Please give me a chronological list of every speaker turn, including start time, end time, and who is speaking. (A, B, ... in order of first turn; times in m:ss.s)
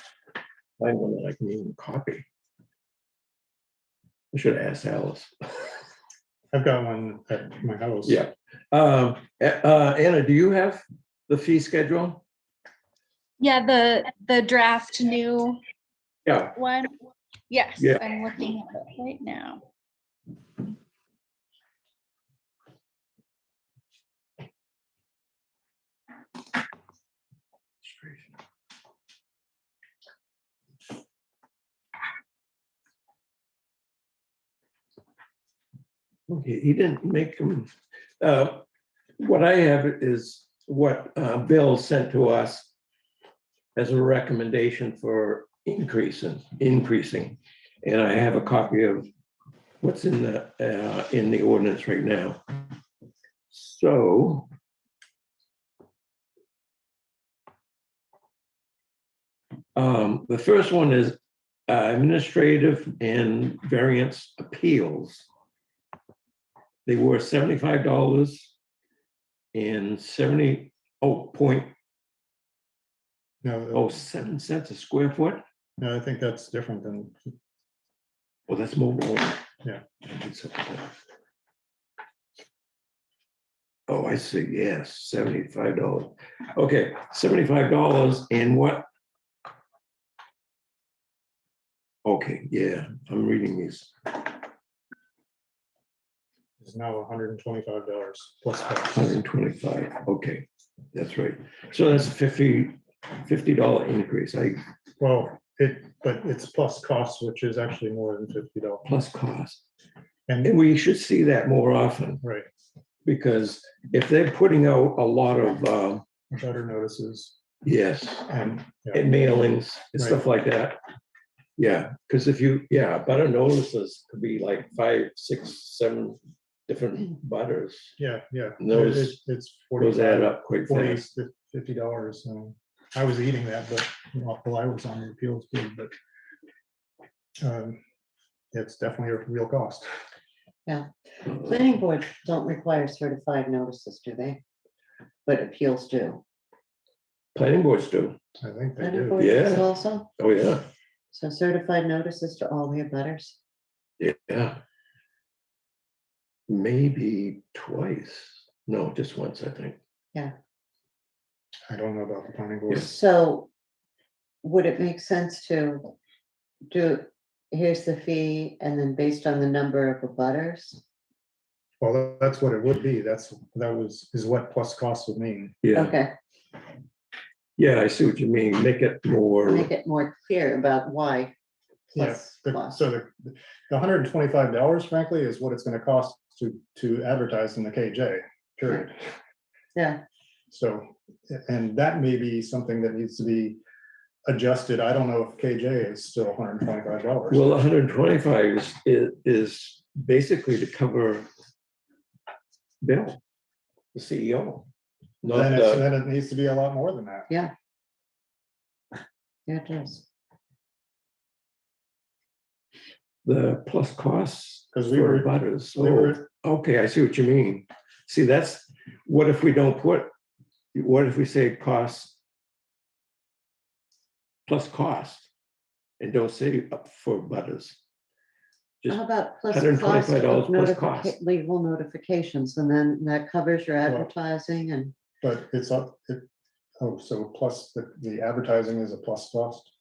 0:00.8-0:02.3 A
0:04.3-0:05.7 A
0:06.5-0:08.2 B
0:08.0-0:12.2 A
0:13.4-0:15.6 C
0:16.2-0:16.5 A
0:16.6-0:16.9 C
0:17.5-0:19.6 C
0:27.8-0:28.2 A
0:36.3-0:38.6 A
0:39.2-0:42.7 A
0:43.7-0:49.1 A
0:49.8-0:52.4 A
0:53.5-0:54.5 A
0:59.7-1:05.3 A
1:06.8-1:08.5 A
1:09.5-1:11.7 A
1:13.4-1:13.9 B
1:13.7-1:15.4 A
1:15.8-1:17.3 B
1:18.5-1:19.4 A
1:20.0-1:20.9 A
1:23.9-1:28.8 A
1:32.0-1:34.3 A
1:36.6-1:39.2 B
1:38.9-1:44.6 A
1:45.0-1:48.9 B
1:48.8-1:49.6 A
1:50.3-1:50.6 B
1:50.4-1:52.2 A
1:52.2-1:52.5 B
1:53.0-1:56.0 A
1:56.3-1:57.4 B
1:57.6-1:58.3 A
1:58.3-1:59.1 B
1:58.9-2:00.8 A
2:01.6-2:07.9 A
2:08.0-2:15.9 B
2:08.6-2:09.2 A
2:09.8-2:11.1 A
2:17.4-2:17.8 B
2:18.5-2:19.9 B
2:20.6-2:24.4 D
2:25.2-2:26.2 D
2:27.3-2:28.2 A
2:28.4-2:29.3 B
2:28.8-2:30.1 D
2:29.2-2:30.6 A
2:31.1-2:33.4 D
2:34.0-2:34.6 A
2:36.5-2:39.8 A
2:41.7-2:42.9 B
2:42.7-2:43.5 D
2:44.4-2:45.9 D
2:46.7-2:50.8 D
2:51.8-2:55.6 B
2:55.6-2:55.9 A
2:55.7-2:56.1 D
2:57.6-2:59.7 A
2:59.4-3:01.3 D
3:01.9-3:02.8 D
3:01.9-3:09.0 B
3:09.7-3:10.0 D
3:10.5-3:13.6 B
3:14.2-3:17.5 B
3:17.3-3:21.3 A
3:22.8-3:23.2 A
3:23.9-3:24.7 A
3:25.2-3:25.9 A
3:25.3-3:27.3 B
3:29.5-3:30.0 D
3:33.2-3:40.1 A
3:34.7-3:36.2 B
3:40.7-3:42.2 A
3:44.5-3:45.3 A
3:46.0-3:47.8 A
3:48.8-3:51.2 A
3:48.9-3:54.9 D
3:55.2-3:56.3 B
3:56.8-3:59.7 B